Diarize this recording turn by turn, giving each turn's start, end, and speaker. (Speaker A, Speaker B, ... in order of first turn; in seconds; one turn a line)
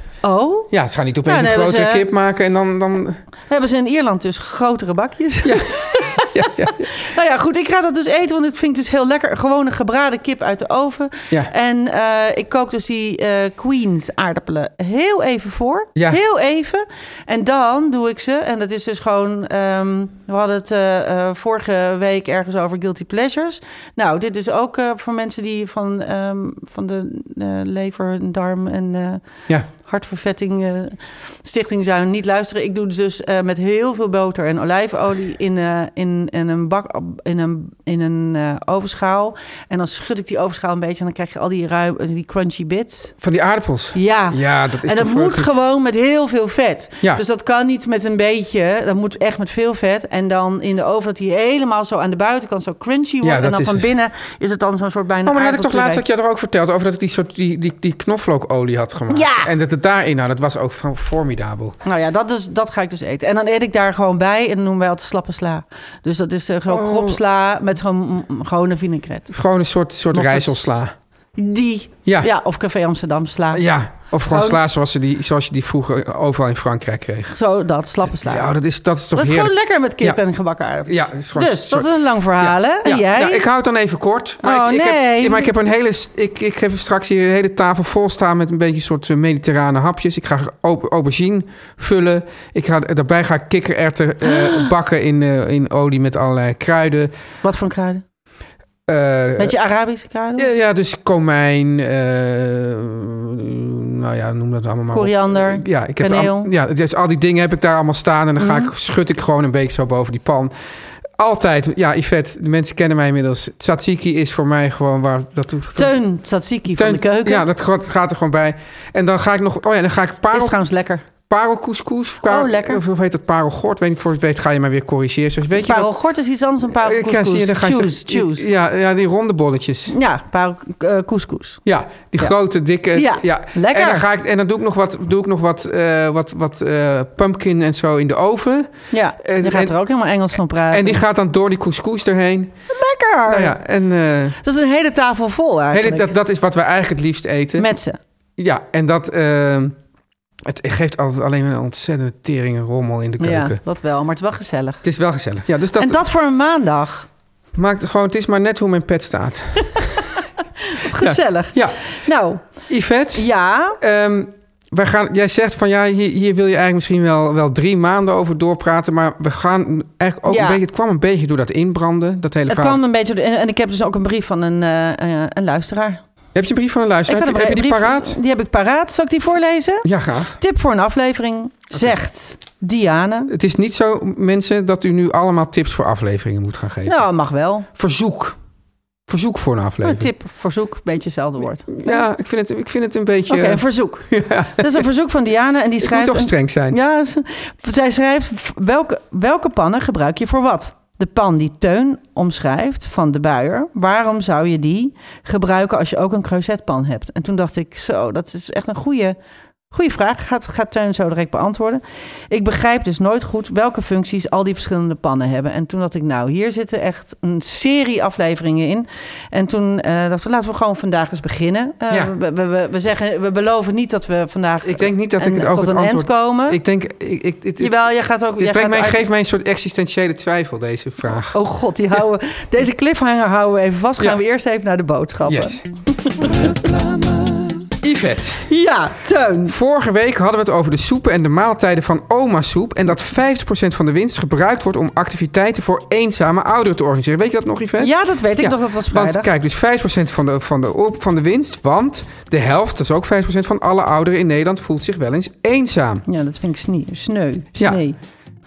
Speaker A: 0.2-0.7
Speaker B: 0.7-3.2
Speaker A: 1.2-2.1
Speaker A: 3.5-29.2
Speaker B: 5.4-6.9
Speaker A: 29.8-43.1
Speaker B: 43.2-45.5
Speaker A: 43.9-56.0
Speaker B: 53.2-53.9
Speaker B: 55.2-61.8
Speaker A: 59.1-59.5
Speaker A: 61.8-69.3
Speaker B: 66.7-67.2
Speaker B: 69.3-70.9
Speaker A: 70.1-70.8
Speaker A: 71.3-73.6
Speaker B: 73.5-77.3
Speaker A: 74.3-74.6
Speaker A: 77.3-78.5
Speaker B: 78.2-80.2
Speaker A: 79.1-83.5
Speaker B: 80.8-97.1
Speaker A: 84.4-85.5
Speaker A: 94.3-94.6
Speaker A: 97.4-98.0
Speaker B: 98.9-99.6
Speaker A: 99.4-100.5
Speaker B: 100.4-110.5
Speaker A: 104.9-106.5
Speaker A: 108.4-108.7
Speaker B: 111.2-116.0
Speaker A: 115.8-117.4
Speaker B: 116.7-120.6
Speaker A: 120.3-121.0
Speaker B: 121.3-125.9
Speaker A: 122.3-122.8
Speaker A: 125.5-128.4
Speaker B: 126.7-129.9
Speaker A: 129.9-131.6
Speaker B: 131.7-138.7
Speaker A: 132.9-134.0
Speaker A: 138.9-141.0
Speaker B: 139.2-139.8
Speaker B: 140.6-142.5
Speaker A: 142.7-143.6
Speaker B: 143.3-144.4
Speaker A: 144.4-146.1
Speaker B: 145.7-147.7
Speaker A: 147.6-148.0
Speaker B: 148.4-149.7
Speaker B: 150.4-153.6
Speaker A: 153.2-154.8
Speaker B: 154.8-156.0
Speaker A: 155.8-157.1
Speaker B: 157.5-160.0
Speaker A: 160.6-162.4
Speaker B: 160.8-172.8
Speaker A: 163.1-163.8
Speaker A: 170.3-170.6
Speaker A: 172.5-176.0
Speaker B: 176.3-178.2
Speaker A: 177.1-183.3
Speaker B: 179.8-180.4
Speaker B: 183.3-187.0
Speaker A: 186.8-187.7
Speaker B: 187.7-188.3
Speaker B: 189.1-190.1
Speaker A: 189.8-192.0
Speaker B: 191.7-194.8
Speaker A: 193.3-209.2
Speaker B: 195.8-196.8
Speaker A: 209.7-226.6
Speaker B: 224.6-227.8
Speaker A: 227.6-229.0
Speaker B: 228.4-231.4
Speaker A: 231.0-237.1
Speaker B: 235.2-235.6
Speaker B: 237.8-238.5
Speaker A: 238.5-239.5
Speaker B: 239.4-256.0
Speaker A: 247.8-249.3
Speaker A: 256.1-258.0
Speaker B: 257.6-257.8